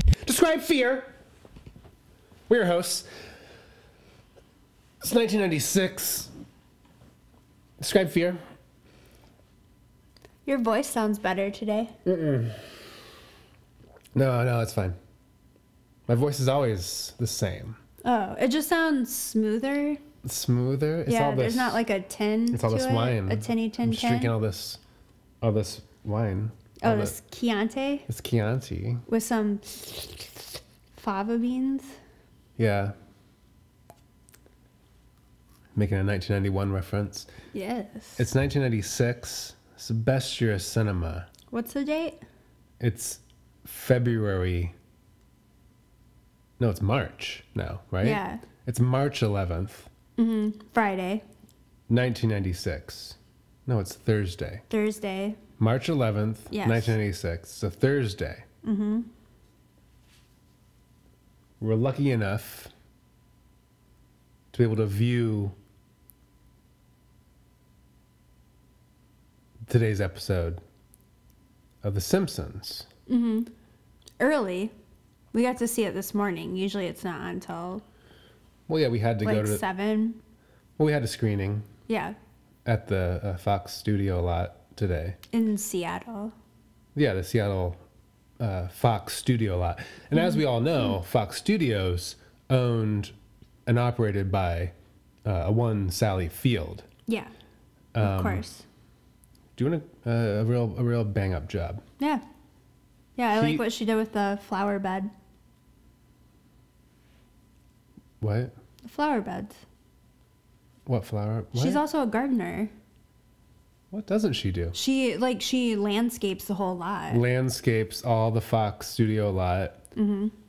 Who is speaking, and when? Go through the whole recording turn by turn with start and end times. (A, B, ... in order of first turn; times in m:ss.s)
0:00.2-0:01.1 A
0:02.5-0:03.1 A
0:05.0-0:06.3 A
0:07.8-0:08.4 A
0:10.4-0:11.9 B
0:12.0-0:12.8 A
0:14.1-0:15.0 A
0:16.1-0:17.8 A
0:18.0-0:20.0 B
0:20.2-0:21.8 A
0:21.0-0:24.3 B
0:22.5-0:24.8 A
0:25.4-0:27.2 A
0:26.8-0:28.0 B
0:28.1-0:29.0 A
0:29.1-0:30.3 B
0:30.9-0:32.0 B
0:32.6-0:32.9 A
0:35.7-0:37.3 A
0:37.5-0:38.2 B
0:38.2-0:41.3 A
0:41.5-0:42.2 B
0:42.8-0:44.7 A
0:46.6-0:49.9 A
0:48.0-0:48.4 B
0:50.2-0:51.2 B
0:51.9-0:54.6 A
0:54.7-0:55.4 B
0:55.6-0:58.4 A
0:56.5-0:57.0 B
0:58.6-0:59.1 B
1:01.6-1:02.7 A
1:04.5-1:05.6 A
1:09.6-1:10.6 A
1:11.8-1:12.9 A
1:13.1-1:13.5 B
1:14.2-1:14.7 B
1:15.3-1:17.8 B
1:18.7-1:19.6 A
1:19.2-1:20.2 B
1:20.8-1:21.7 A
1:21.9-1:22.2 B
1:22.6-1:25.2 A
1:25.3-1:26.3 B
1:26.9-1:27.8 A
1:28.4-1:33.1 A
1:30.1-1:30.9 B
1:33.6-1:34.7 A
1:35.2-1:36.8 A
1:37.9-1:38.4 A
1:38.0-1:38.6 B
1:39.6-1:41.8 A
1:43.2-1:45.1 B
1:43.3-1:43.6 A
1:48.2-1:48.5 A
1:48.8-1:49.6 B
1:50.8-1:51.8 A
1:51.5-1:52.7 B
1:53.9-1:54.8 A
1:54.7-1:57.2 B
1:57.1-1:59.8 A
1:59.9-2:00.3 B